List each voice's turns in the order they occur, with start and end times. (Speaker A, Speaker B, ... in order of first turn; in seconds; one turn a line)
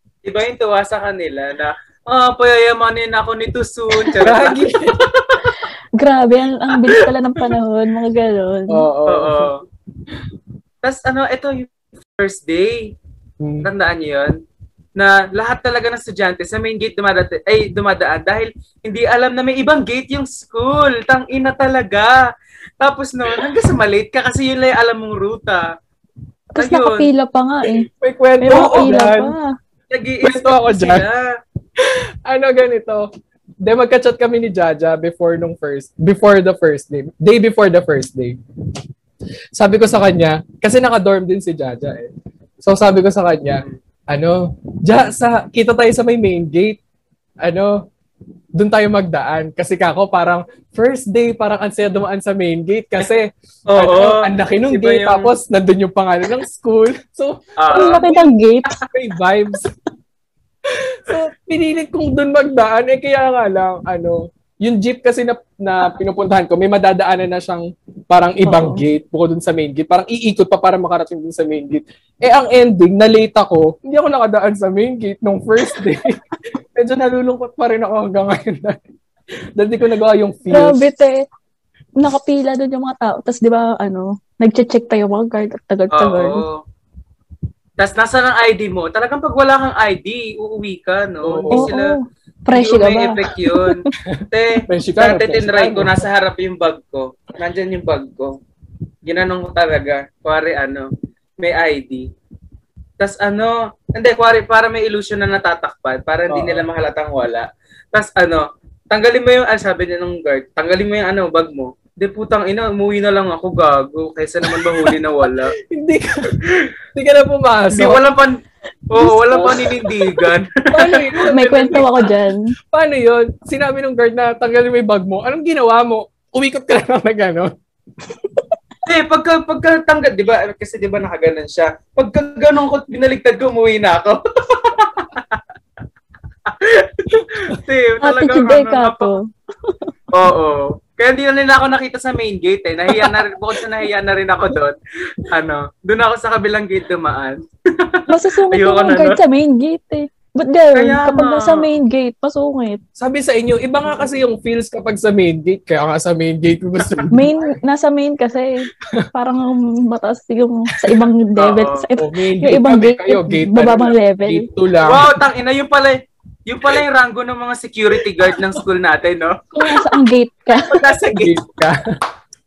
Speaker A: 0.2-5.4
Speaker B: 4.2-5.0
Speaker C: 6.0-8.8
Speaker B: 8.7-9.5
Speaker A: 9.1-9.6
Speaker A: 10.8-12.9
Speaker B: 13.4-13.7
Speaker A: 13.6-14.4
Speaker A: 15.0-22.2
Speaker A: 22.8-25.6
Speaker C: 26.6-27.9
Speaker A: 26.6-27.1
Speaker B: 28.0-29.3
Speaker C: 28.4-29.5
Speaker A: 28.5-29.0
Speaker A: 29.9-31.2
Speaker B: 30.2-31.0
Speaker B: 31.8-33.1
Speaker B: 33.6-38.4
Speaker B: 39.5-42.1
Speaker B: 42.6-46.8
Speaker B: 47.4-47.9
Speaker B: 48.6-58.2
Speaker A: 53.7-55.3
Speaker A: 57.6-58.1
Speaker C: 57.7-58.8
Speaker B: 58.8-59.7
Speaker B: 60.6-76.2
Speaker C: 68.5-68.8
Speaker B: 76.8-78.8
Speaker B: 79.6-80.9
Speaker C: 80.5-81.2
Speaker C: 82.0-86.4
Speaker A: 85.9-86.6
Speaker A: 87.8-92.0
Speaker B: 91.2-91.7
Speaker C: 91.5-93.9
Speaker A: 92.5-98.4
Speaker B: 94.1-96.1
Speaker A: 99.0-102.1
Speaker A: 103.0-115.6
Speaker B: 106.3-106.7
Speaker B: 114.4-116.3
Speaker B: 116.9-118.0
Speaker A: 117.7-121.1
Speaker C: 119.0-120.0
Speaker B: 120.7-127.5
Speaker C: 121.2-122.5
Speaker A: 128.8-135.4
Speaker A: 136.5-139.1
Speaker C: 138.0-139.9
Speaker A: 140.1-149.2
Speaker C: 148.1-152.8
Speaker A: 150.8-151.7
Speaker B: 153.0-157.3
Speaker C: 157.1-164.5
Speaker A: 161.4-161.9
Speaker B: 162.0-165.1
Speaker A: 164.8-169.4
Speaker B: 168.0-168.6
Speaker C: 169.5-170.8
Speaker A: 170.6-171.4
Speaker B: 171.1-171.9